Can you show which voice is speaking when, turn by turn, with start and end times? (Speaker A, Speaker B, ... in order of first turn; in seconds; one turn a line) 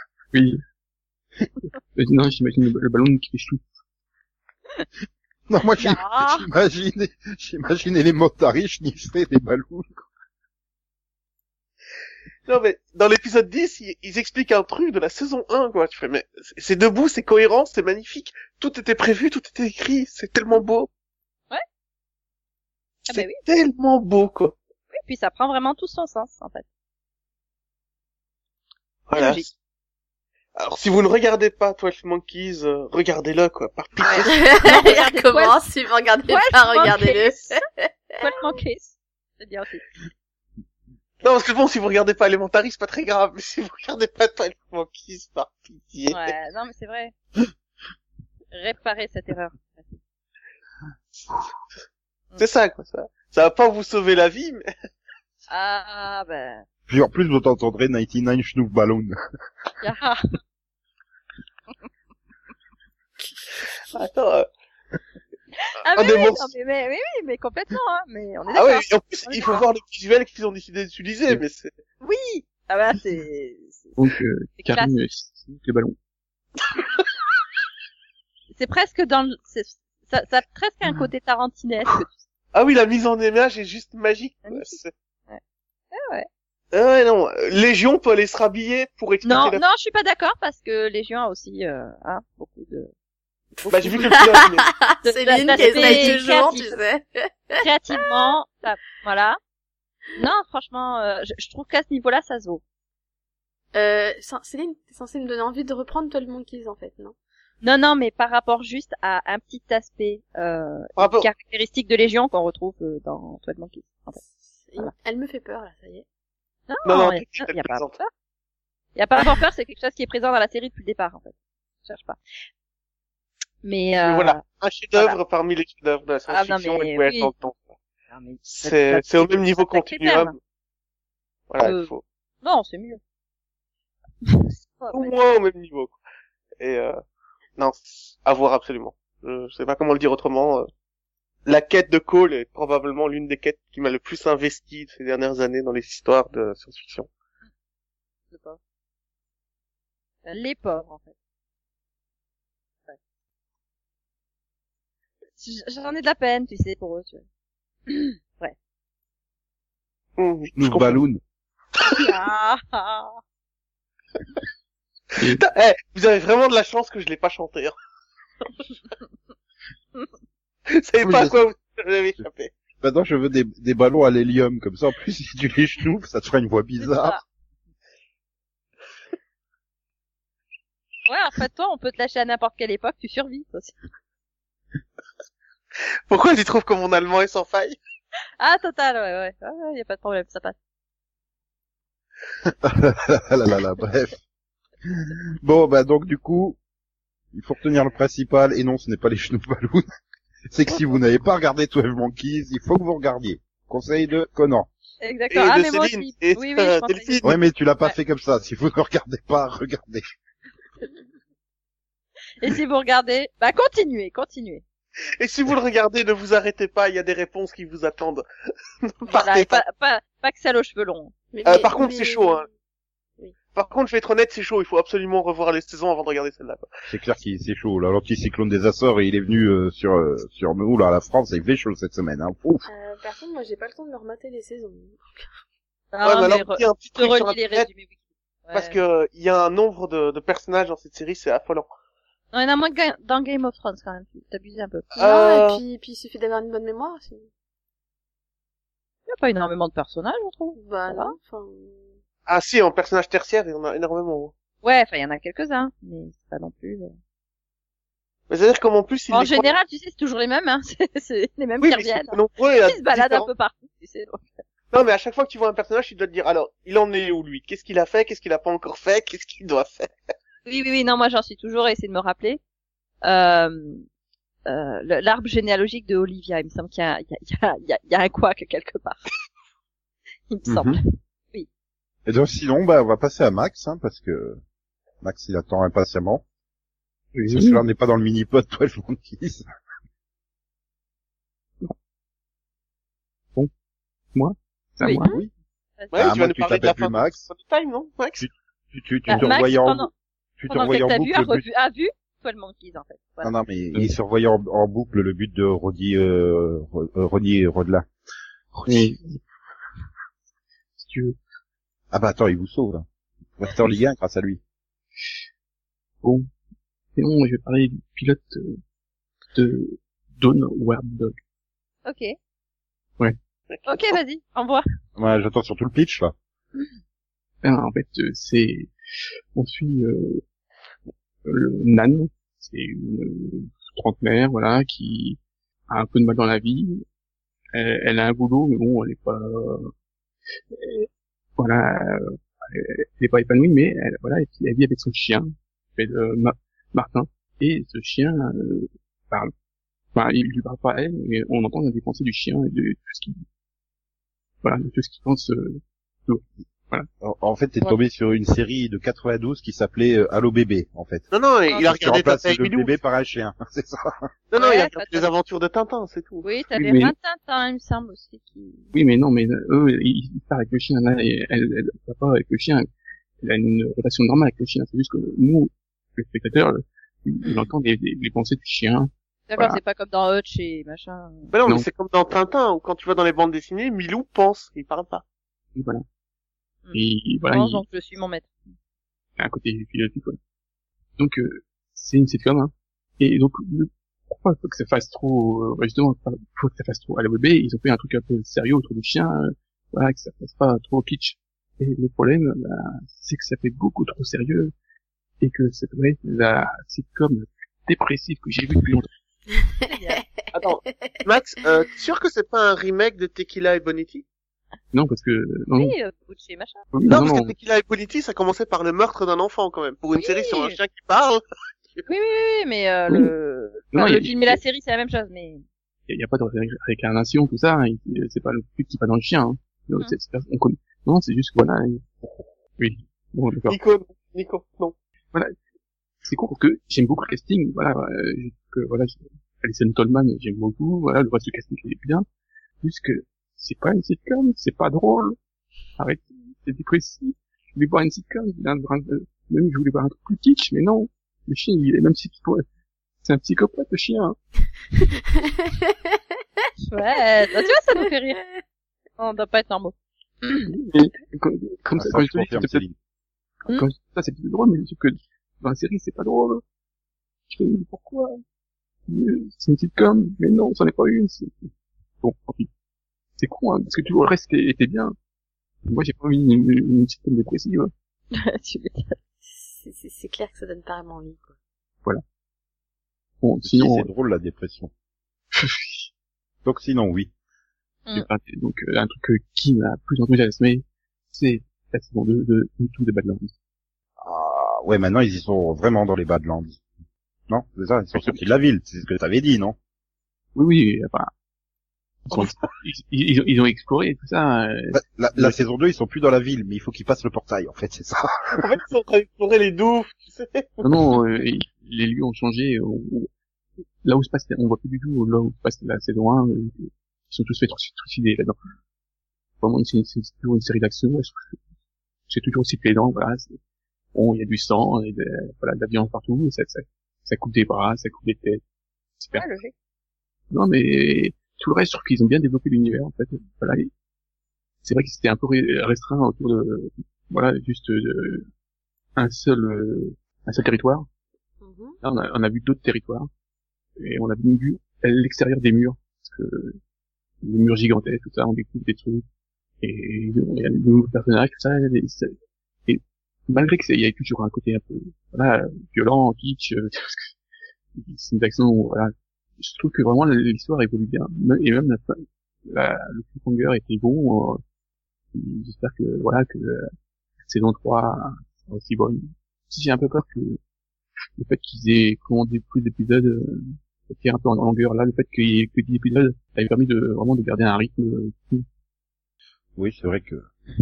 Speaker A: 0.3-0.6
Speaker A: 1.9-3.7
Speaker B: 5.5-10.1
Speaker C: 5.8-6.5
Speaker D: 12.4-20.9
Speaker D: 23.1-24.5
Speaker C: 23.1-23.4
Speaker C: 24.9-26.6
Speaker D: 29.1-29.5
Speaker C: 29.1-29.5
Speaker D: 30.6-34.4
Speaker C: 34.0-35.6
Speaker E: 34.3-38.3
Speaker C: 36.3-37.6
Speaker C: 38.2-39.9
Speaker D: 41.2-46.3
Speaker C: 46.1-47.1
Speaker C: 48.5-50.0
Speaker D: 52.4-54.7
Speaker C: 55.5-56.6
Speaker B: 56.9-59.1
Speaker C: 59.8-60.2
Speaker D: 63.9-64.5
Speaker C: 65.6-69.6
Speaker D: 65.9-66.5
Speaker D: 68.5-71.7
Speaker C: 72.0-74.0
Speaker A: 74.0-76.0
Speaker C: 74.6-74.9
Speaker C: 78.5-82.2
Speaker D: 82.5-84.9
Speaker C: 84.4-85.4
Speaker C: 85.9-86.3
Speaker D: 86.7-89.6
Speaker C: 89.2-92.9
Speaker C: 93.6-94.1
Speaker D: 93.7-94.7
Speaker E: 94.0-97.6
Speaker C: 95.0-96.8
Speaker D: 95.5-96.1
Speaker C: 97.6-99.4
Speaker C: 100.2-102.6
Speaker E: 103.7-107.1
Speaker C: 107.6-114.2
Speaker D: 111.0-111.3
Speaker E: 114.6-116.0
Speaker C: 116.7-118.1
Speaker D: 116.8-118.0
Speaker C: 119.0-121.3
Speaker C: 121.8-122.2
Speaker C: 123.6-124.4
Speaker D: 124.0-127.7
Speaker C: 124.9-125.2
Speaker C: 126.3-127.3
Speaker C: 128.1-130.3
Speaker D: 128.4-130.3
Speaker D: 131.5-132.0
Speaker C: 131.6-131.9
Speaker C: 132.4-133.0
Speaker C: 134.2-135.1
Speaker D: 134.9-136.0
Speaker D: 136.6-137.0
Speaker D: 137.6-140.7
Speaker D: 141.4-147.1
Speaker C: 148.3-148.6
Speaker C: 150.2-151.1
Speaker C: 155.4-157.2
Speaker C: 157.9-158.5
Speaker D: 160.2-161.0
Speaker B: 160.6-161.2
Speaker C: 161.9-163.2
Speaker D: 165.2-167.8
Speaker D: 170.7-172.5
Speaker B: 171.0-171.4
Speaker B: 172.8-177.2
Speaker C: 176.8-177.2
Speaker C: 181.1-183.8
Speaker D: 186.1-187.8
Speaker C: 188.4-190.5
Speaker B: 192.5-194.2
Speaker B: 195.1-196.6
Speaker B: 197.3-199.8
Speaker B: 200.5-204.7
Speaker C: 205.0-207.3
Speaker D: 205.3-207.3
Speaker B: 207.2-210.0
Speaker C: 212.4-214.6
Speaker D: 215.2-218.3
Speaker D: 218.8-219.6
Speaker C: 219.0-221.1
Speaker E: 221.3-222.4
Speaker D: 221.4-222.4
Speaker D: 223.5-226.7
Speaker B: 226.9-232.7
Speaker E: 232.7-235.2
Speaker C: 235.9-237.9
Speaker D: 236.0-237.7
Speaker C: 238.5-238.8
Speaker D: 238.5-241.7
Speaker C: 242.3-244.8
Speaker D: 244.9-245.6
Speaker E: 245.0-247.3
Speaker C: 249.1-251.1
Speaker E: 250.5-251.9
Speaker D: 252.2-254.3
Speaker C: 254.6-256.9
Speaker D: 258.3-259.5
Speaker C: 259.1-264.4
Speaker D: 261.6-263.3
Speaker D: 264.7-269.9
Speaker C: 270.4-272.4
Speaker C: 273.0-273.8
Speaker C: 274.5-279.0
Speaker C: 280.3-280.8
Speaker B: 280.5-280.8
Speaker B: 282.1-284.4
Speaker B: 285.0-286.2
Speaker A: 287.1-287.6
Speaker B: 287.3-289.4
Speaker A: 294.1-295.1
Speaker C: 294.8-295.1
Speaker B: 295.0-295.3
Speaker D: 295.9-298.2
Speaker B: 295.9-297.3
Speaker B: 298.2-301.4
Speaker C: 299.1-299.9
Speaker C: 300.5-303.3
Speaker B: 303.2-307.9
Speaker B: 308.5-308.9
Speaker A: 308.6-309.2
Speaker A: 310.8-311.1
Speaker B: 311.9-312.8
Speaker B: 313.4-314.4
Speaker A: 316.0-316.3
Speaker A: 316.9-318.6
Speaker A: 319.3-321.1
Speaker C: 321.9-322.1
Speaker D: 323.5-323.8
Speaker C: 323.6-324.6
Speaker B: 324.9-326.1
Speaker A: 327.4-328.7
Speaker A: 329.3-330.2
Speaker A: 331.2-335.2
Speaker A: 335.7-336.8
Speaker A: 337.5-339.7
Speaker A: 340.5-349.3
Speaker A: 349.9-353.2
Speaker A: 354.4-356.9
Speaker B: 357.0-361.1
Speaker D: 361.1-362.7
Speaker B: 361.6-364.1
Speaker D: 364.3-366.2
Speaker C: 364.4-365.1
Speaker C: 366.2-368.7
Speaker A: 366.6-366.9
Speaker A: 368.7-372.7
Speaker A: 373.2-379.6
Speaker C: 379.3-381.3
Speaker D: 381.3-385.0
Speaker A: 385.5-385.8
Speaker C: 386.6-388.3
Speaker A: 386.7-387.6
Speaker A: 389.2-390.2
Speaker A: 391.0-404.5
Speaker A: 405.2-408.9
Speaker E: 409.4-411.0
Speaker C: 409.7-410.0
Speaker D: 410.3-414.0
Speaker A: 414.7-415.7
Speaker C: 415.6-416.6
Speaker A: 416.7-417.3
Speaker D: 416.9-421.2
Speaker C: 419.9-420.6
Speaker C: 421.9-425.4
Speaker A: 423.7-424.4
Speaker A: 425.9-433.6
Speaker D: 433.5-434.7
Speaker A: 436.0-442.0
Speaker A: 442.6-445.2
Speaker A: 445.8-452.4
Speaker A: 453.0-454.1
Speaker E: 455.1-456.0
Speaker C: 456.6-458.2
Speaker C: 459.0-460.5
Speaker A: 460.4-462.6
Speaker B: 461.8-462.7
Speaker A: 463.5-466.4
Speaker A: 467.3-468.2
Speaker A: 468.9-471.5
Speaker A: 472.0-472.5
Speaker A: 473.2-474.9
Speaker A: 475.6-477.7
Speaker C: 478.1-478.9
Speaker E: 479.3-481.3
Speaker A: 483.2-483.9
Speaker B: 483.4-484.7
Speaker A: 485.3-485.9
Speaker B: 486.4-487.1
Speaker A: 487.9-493.3
Speaker B: 494.0-496.6
Speaker B: 497.3-499.6
Speaker A: 497.9-498.2
Speaker A: 500.3-501.1
Speaker A: 502.1-505.4
Speaker B: 504.7-508.5
Speaker D: 508.4-510.7
Speaker A: 510.6-513.1
Speaker A: 513.8-518.4
Speaker A: 519.4-521.4
Speaker A: 522.1-523.4
Speaker A: 523.9-528.4
Speaker A: 529.0-529.2
Speaker C: 529.1-529.5
Speaker A: 530.3-533.7
Speaker A: 534.6-538.3
Speaker A: 539.0-540.9
Speaker E: 541.4-541.8
Speaker A: 541.8-543.1
Speaker A: 543.8-546.6
Speaker A: 547.2-549.0
Speaker A: 549.6-552.1
Speaker A: 552.7-557.1
Speaker A: 557.7-564.4
Speaker A: 565.1-566.7
Speaker A: 567.2-570.4
Speaker A: 571.2-578.5
Speaker B: 579.5-580.3